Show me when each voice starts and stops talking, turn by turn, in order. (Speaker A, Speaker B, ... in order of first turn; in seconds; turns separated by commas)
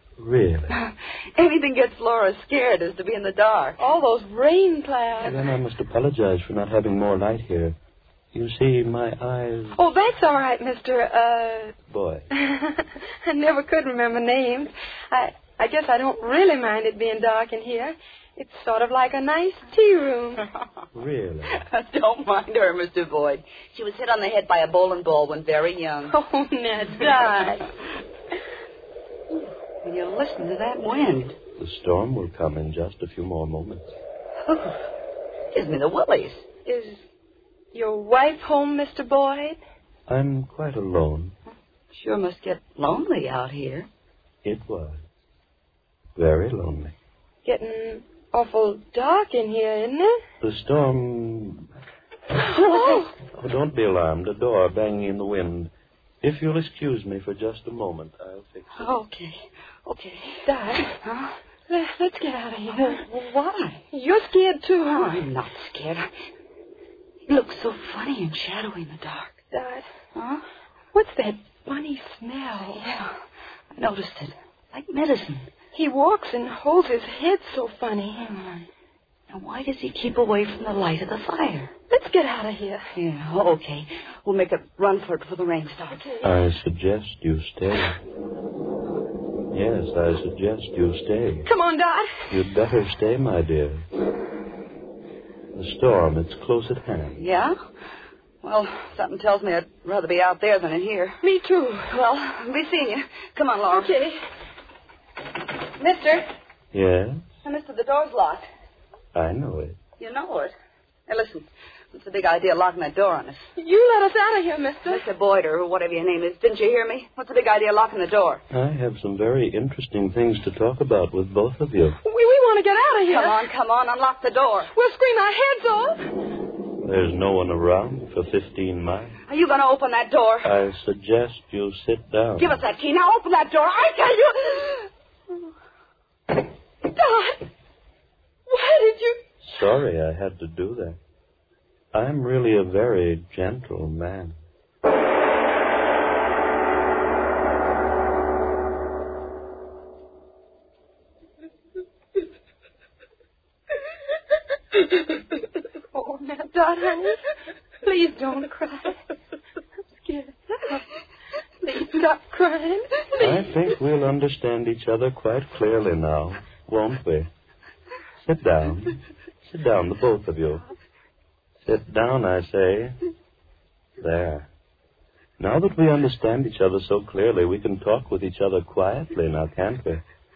Speaker A: 0.2-0.8, Speaker B: 0.7-3.8, Speaker C: 3.8-5.4, Speaker A: 5.2-7.8, Speaker A: 8.3-9.8, Speaker C: 9.8-11.8, Speaker A: 11.9-12.3, Speaker C: 12.3-20.4, Speaker A: 20.9-21.7, Speaker B: 21.6-26.2, Speaker C: 26.1-27.7, Speaker B: 29.8-31.4, Speaker A: 31.6-34.0, Speaker B: 34.5-34.8, Speaker B: 35.5-36.5, Speaker C: 36.6-37.0, Speaker C: 37.7-39.6, Speaker A: 40.1-41.4, Speaker B: 41.9-43.9, Speaker A: 44.4-45.0, Speaker A: 46.1-47.0, Speaker C: 47.4-50.2, Speaker A: 50.4-51.7, Speaker C: 52.4-53.1, Speaker A: 53.2-59.0, Speaker B: 58.8-61.4, Speaker C: 60.5-61.0, Speaker C: 61.7-63.0, Speaker B: 62.7-63.8, Speaker C: 63.9-65.2, Speaker B: 64.9-66.1, Speaker B: 67.3-69.3, Speaker C: 69.5-69.9, Speaker B: 70.2-70.5, Speaker C: 70.9-73.0, Speaker B: 72.7-73.1, Speaker B: 73.7-75.5, Speaker C: 75.7-78.7, Speaker B: 79.3-81.7, Speaker C: 81.9-82.9, Speaker B: 83.0-86.0, Speaker C: 85.9-86.3, Speaker A: 86.2-88.0, Speaker A: 89.5-91.5, Speaker C: 91.5-92.3, Speaker A: 92.3-93.8, Speaker A: 95.5-97.2, Speaker B: 97.2-97.6, Speaker B: 98.4-101.2, Speaker C: 101.2-101.9, Speaker B: 101.9-104.0, Speaker C: 103.7-104.2, Speaker B: 105.8-106.2, Speaker A: 106.7-107.2, Speaker B: 107.4-108.5, Speaker A: 109.1-109.8, Speaker B: 110.0-110.5, Speaker B: 111.1-113.5, Speaker C: 113.6-115.0, Speaker B: 114.9-118.4, Speaker A: 118.5-122.0, Speaker C: 122.0-123.5, Speaker B: 123.1-124.7, Speaker C: 124.7-126.1, Speaker A: 126.8-129.2, Speaker B: 129.3-130.5, Speaker A: 130.4-132.6, Speaker B: 132.4-134.9, Speaker C: 136.8-137.4, Speaker C: 138.5-139.2, Speaker A: 139.4-141.0, Speaker A: 141.9-144.4, Speaker C: 155.9-157.2, Speaker C: 157.8-159.0, Speaker C: 160.0-160.8, Speaker C: 161.6-163.5, Speaker A: 163.2-167.3, Speaker A: 168.2-170.7, Speaker A: 171.6-173.0, Speaker A: 174.0-174.5, Speaker A: 175.4-180.0